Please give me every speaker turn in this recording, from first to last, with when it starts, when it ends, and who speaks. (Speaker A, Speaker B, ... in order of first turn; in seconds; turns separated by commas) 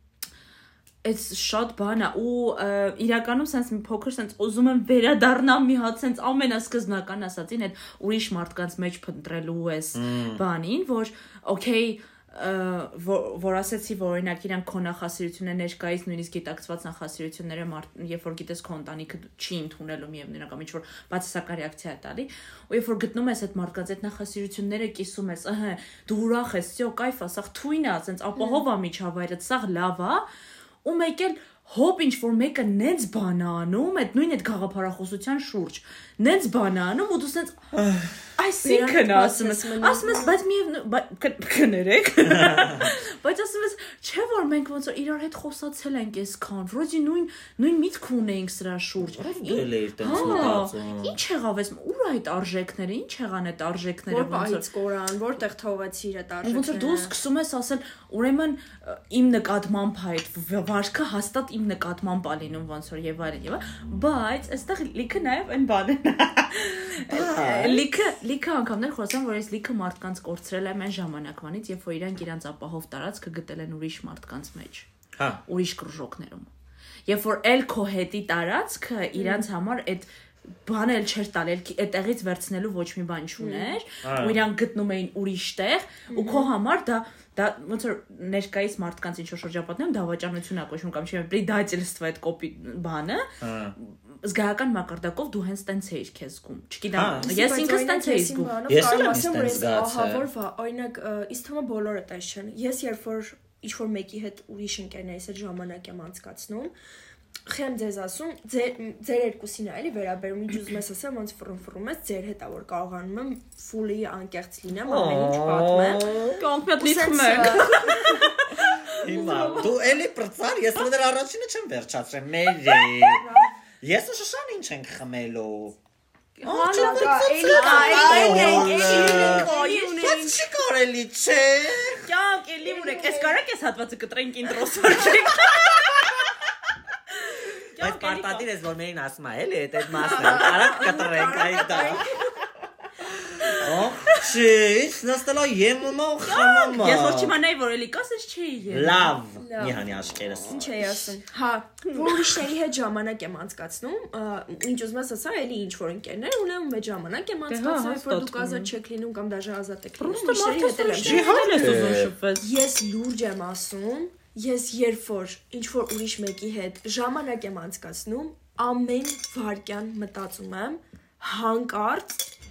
Speaker A: 1.0-30.2, Speaker B: 9.9-10.4, Speaker C: 28.4-28.6, Speaker A: 30.8-37.6, Speaker B: 37.7-38.1, Speaker C: 38.4-40.4, Speaker A: 38.6-54.6, Speaker B: 42.2-42.9, Speaker B: 49.2-51.2, Speaker C: 50.1-50.6, Speaker C: 54.1-57.1, Speaker A: 56.4-74.9, Speaker B: 67.1-67.8, Speaker C: 67.2-67.8, Speaker B: 75.1-75.4, Speaker A: 75.5-76.5, Speaker A: 77.1-80.1, Speaker C: 79.1-79.5, Speaker A: 80.6-93.3, Speaker C: 83.4-83.8, Speaker B: 84.0-84.4, Speaker C: 86.1-86.5, Speaker B: 93.4-93.8, Speaker A: 93.8-98.6, Speaker B: 96.9-97.3, Speaker C: 97.2-106.7, Speaker B: 98.7-100.3, Speaker C: 107.5-116.1, Speaker B: 114.7-116.4, Speaker A: 116.4-119.6, Speaker C: 116.8-119.7, Speaker B: 118.8-123.2, Speaker A: 122.7-122.9, Speaker C: 123.2-123.5, Speaker B: 123.8-125.8, Speaker A: 126.4-130.1, Speaker B: 126.4-132.1, Speaker C: 126.5-130.4, Speaker A: 132.0-136.2, Speaker C: 132.6-133.4, Speaker B: 135.5-136.3, Speaker A: 137.1-138.5, Speaker B: 137.8-142.1, Speaker C: 140.0-142.3, Speaker A: 140.1-142.0, Speaker B: 143.1-147.3, Speaker A: 143.2-144.3, Speaker A: 146.2-149.1, Speaker B: 148.7-150.9, Speaker C: 149.4-161.9, Speaker A: 151.8-152.4, Speaker A: 157.5-158.7, Speaker A: 160.0-162.5, Speaker B: 161.0-162.1, Speaker C: 162.4-172.2